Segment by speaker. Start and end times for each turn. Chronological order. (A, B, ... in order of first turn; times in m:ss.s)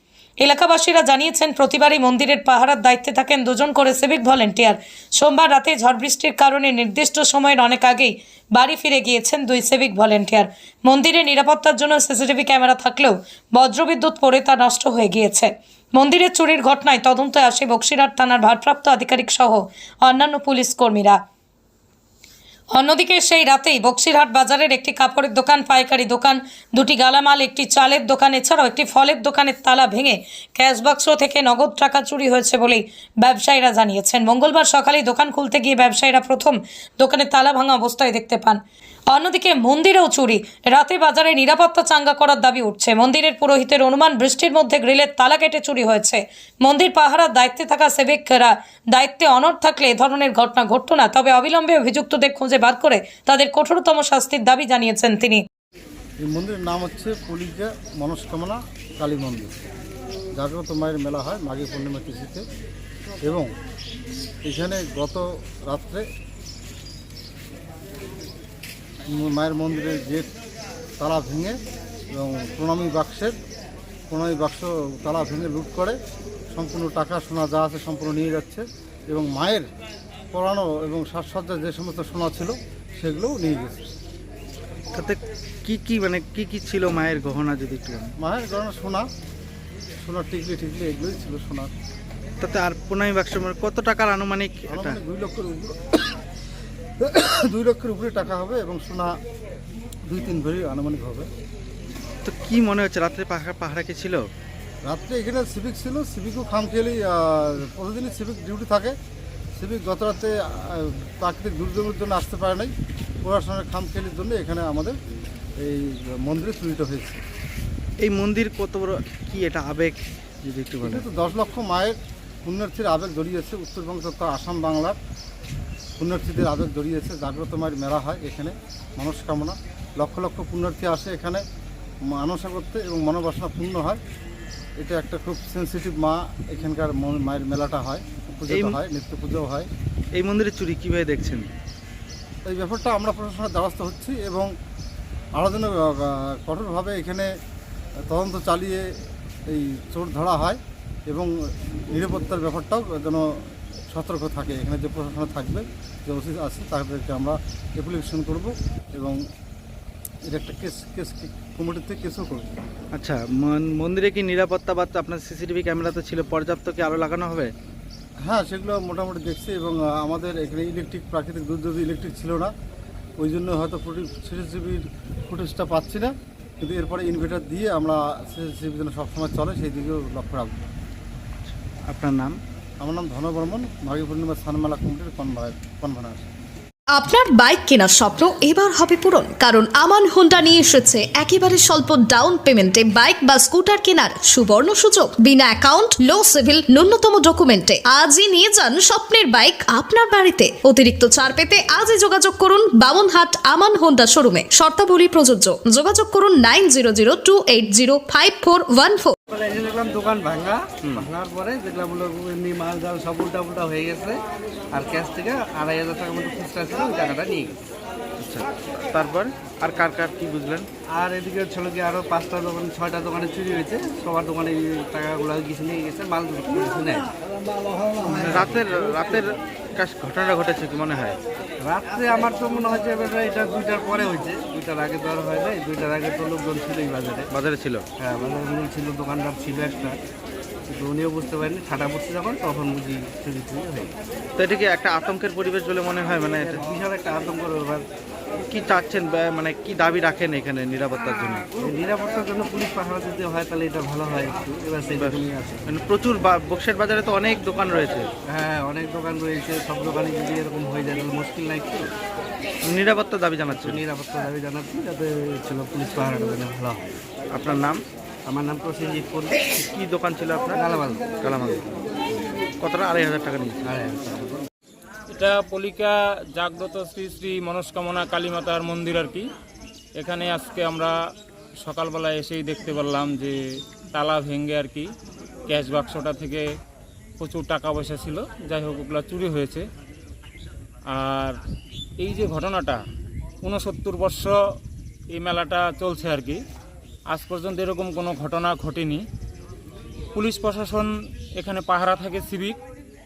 0:00.4-0:21.2 A
0:22.7-0:55.4 A
0:56.2-0:59.5 B
1:00.4-1:02.4 B
1:03.2-1:03.5 B
1:04.4-1:06.0 B
1:09.1-1:10.3 B
1:11.0-1:11.6 B
1:12.1-1:13.4 B
1:14.1-1:16.0 B
1:16.5-1:19.7 B
1:20.3-1:23.8 B
1:24.9-1:28.1 C
1:28.2-1:29.1 B
1:30.0-1:31.7 B
1:32.4-1:35.0 C
1:34.7-1:36.2 B
1:37.0-1:39.2 B
1:40.1-1:41.3 B
1:42.2-1:44.2 C
1:44.9-1:49.0 B
1:49.6-1:52.7 B
1:53.2-1:55.0 B
1:55.6-1:57.2 B
1:58.0-2:01.0 C
2:00.8-2:05.0 B
2:06.0-2:11.4 B
2:12.0-2:14.0 B
2:14.8-2:19.7 B
2:18.5-2:18.8 C
2:20.2-2:21.5 C
2:22.5-2:24.5 B
2:25.4-2:27.3 B
2:28.1-2:28.9 B
2:29.5-2:31.3 B
2:31.9-2:33.3 B
2:33.9-2:39.2 B
2:40.3-2:42.5 B
2:42.9-2:47.5 C
2:48.3-2:52.5 B
2:53.2-3:00.7 B
3:01.4-3:02.4 C
3:02.8-3:06.3 B
3:06.9-3:29.1 D
3:29.3-3:34.2 E
3:34.7-3:37.6 E
3:38.2-3:40.7 C
3:40.9-3:49.2 E
3:48.0-3:51.2 C
3:51.6-3:57.3 E
3:57.3-3:57.8 C
3:58.0-4:00.0 E
4:00.7-4:03.9 E
4:04.4-4:06.6 C
4:06.4-4:07.8 E
4:08.5-4:11.5 C
4:11.6-4:15.6 E
4:15.0-4:18.1 C
4:18.3-4:21.9 E
4:22.6-4:23.8 C
4:23.5-4:27.0 E
4:27.3-4:27.8 C
4:28.3-4:29.6 E
4:29.6-4:31.7 C
4:30.5-4:31.2 E
4:32.6-4:33.7 C
4:33.6-4:34.4 E
4:35.1-4:39.3 F
4:40.0-4:41.0 F
4:41.6-4:43.4 F
4:43.9-4:44.9 F
4:45.5-4:46.5 F
4:47.2-4:49.7 F
4:50.9-4:51.4 F
4:52.0-4:52.8 F
4:53.4-4:54.4 F
4:55.1-4:56.4 F
4:57.1-4:59.0 F
5:00.1-5:02.6 F